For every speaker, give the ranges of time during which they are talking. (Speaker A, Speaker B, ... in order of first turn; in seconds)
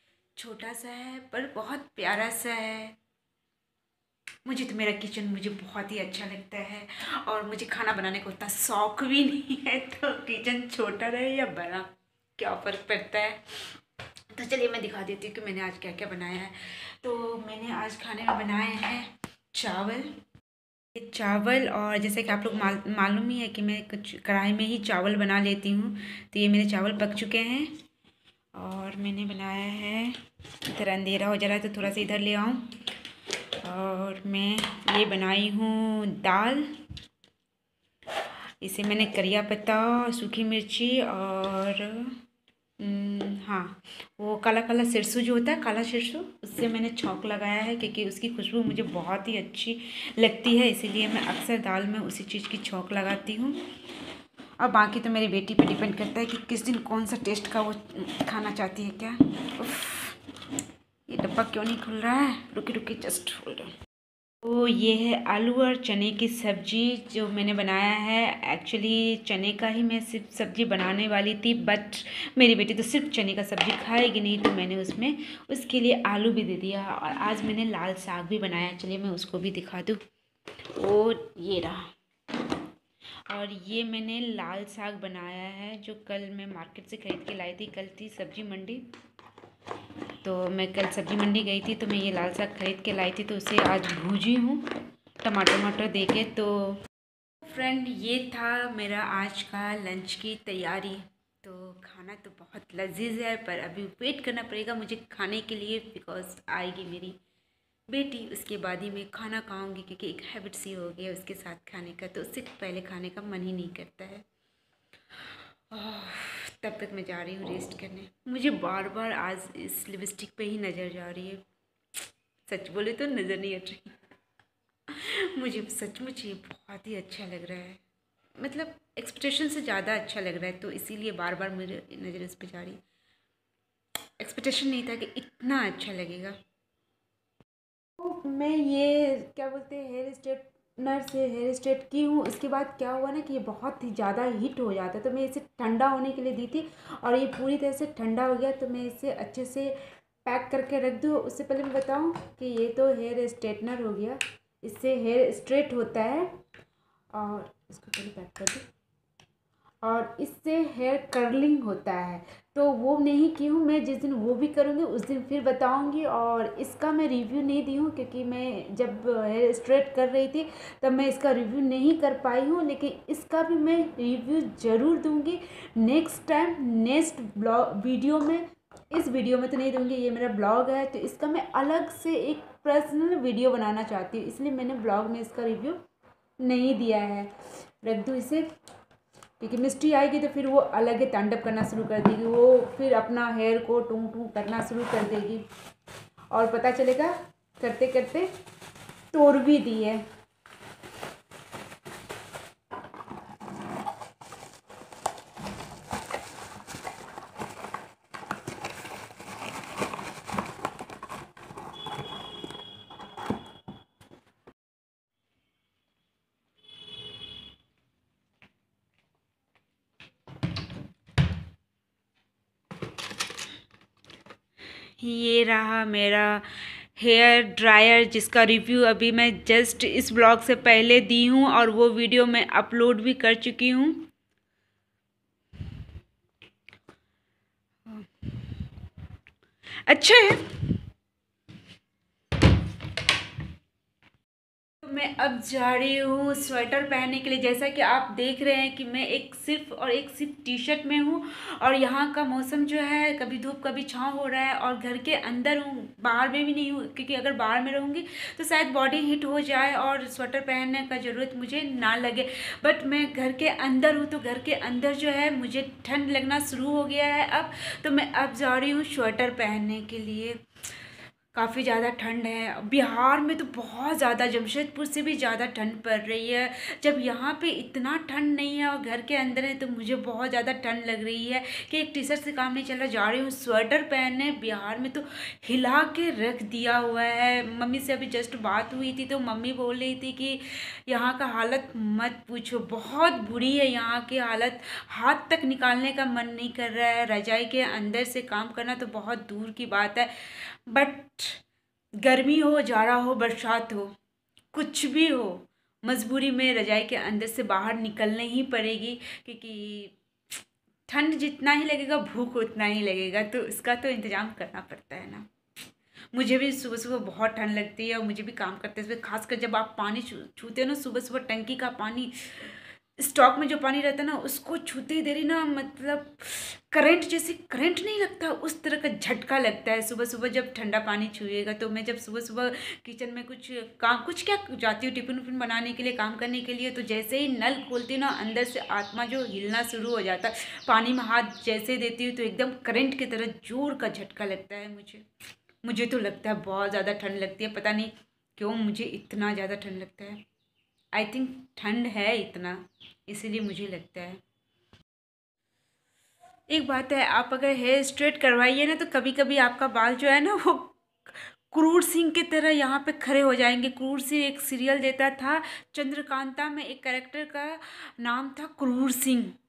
Speaker A: 0.3-3.0, 4.4-13.7, 14.3-20.1, 20.9-27.7, 28.5-32.7, 33.5-36.7, 38.6-42.2, 42.8-53.6, 54.6-60.2, 61.1-63.7, 64.4-80.0, 80.7-81.9, 83.3-88.8, 90.2-96.8, 97.4-107.2, 107.9-114.2, 115.7-121.4, 122.5-124.0, 124.9-127.8, 128.4-132.8, 134.2-136.4, 138.0-156.3, 157.1-158.7, 159.8-185.8, 186.4-188.5, 189.4-195.4, 196.3-198.3, 199.1-200.0, 225.0-234.1, 237.8-238.6, 239.9-240.8, 244.8-270.4, 271.3-301.4, 302.0-303.9, 304.5-309.9, 310.9-315.3, 316.1-345.1, 345.6-350.2, 350.9-354.2, 356.5-369.3